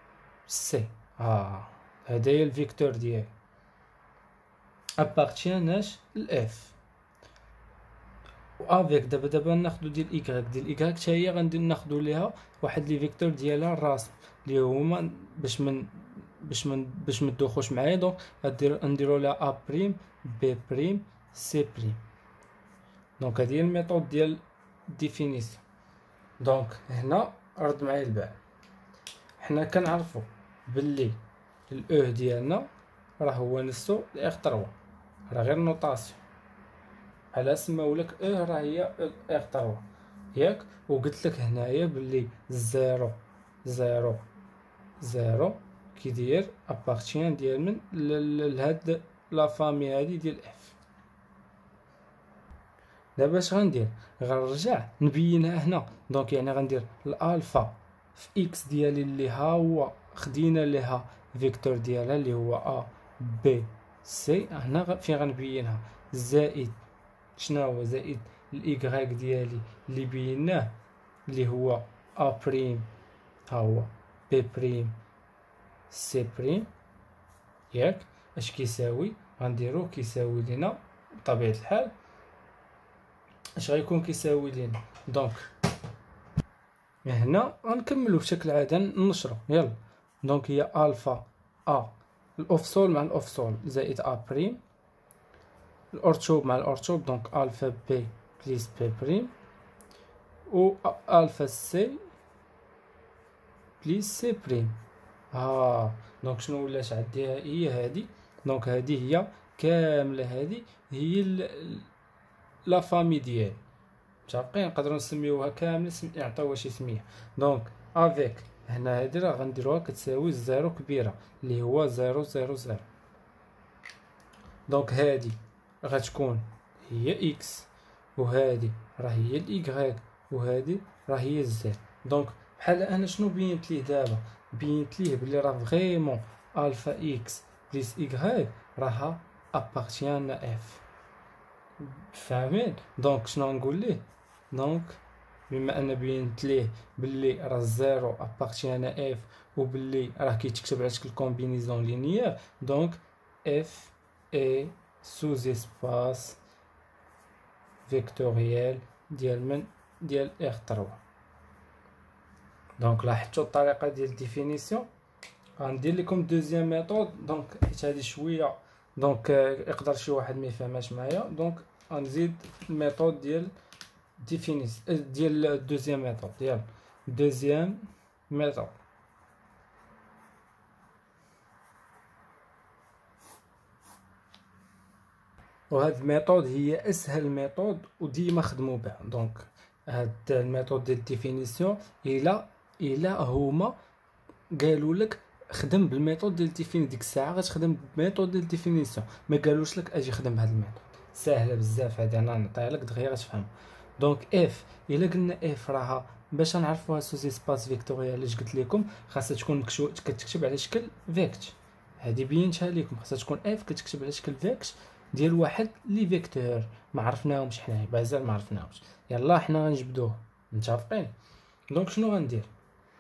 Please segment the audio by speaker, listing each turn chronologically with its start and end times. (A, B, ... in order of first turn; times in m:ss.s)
0:00.5-0:03.3 A
0:05.0-0:06.8 A
0:08.6-0:22.0 A
0:23.2-0:25.6 A
0:26.4-0:28.4 A
0:29.4-0:32.7 A
0:33.2-0:34.8 A
0:35.3-0:36.2 A
0:37.3-0:44.3 A
0:45.0-0:50.8 A
0:53.2-1:06.8 A
1:07.4-1:10.7 A
1:11.3-1:12.9 A
1:13.5-1:15.0 A
1:15.9-1:16.7 A
1:17.7-1:22.0 A
1:23.6-1:25.5 A
1:27.0-1:34.6 A
1:35.9-1:39.3 A
1:40.5-1:42.0 A
1:43.8-1:44.8 A
1:45.3-1:51.9 A
1:52.7-1:53.6 A
1:54.3-2:02.9 A
2:04.7-2:20.8 A
2:21.8-2:36.4 A
2:37.9-2:41.0 A
2:42.8-2:44.9 A
2:45.6-2:53.5 A
2:54.2-2:57.8 A
2:58.3-2:58.8 A
3:05.7-3:13.8 A
3:14.5-3:41.1 A
3:41.7-3:42.5 A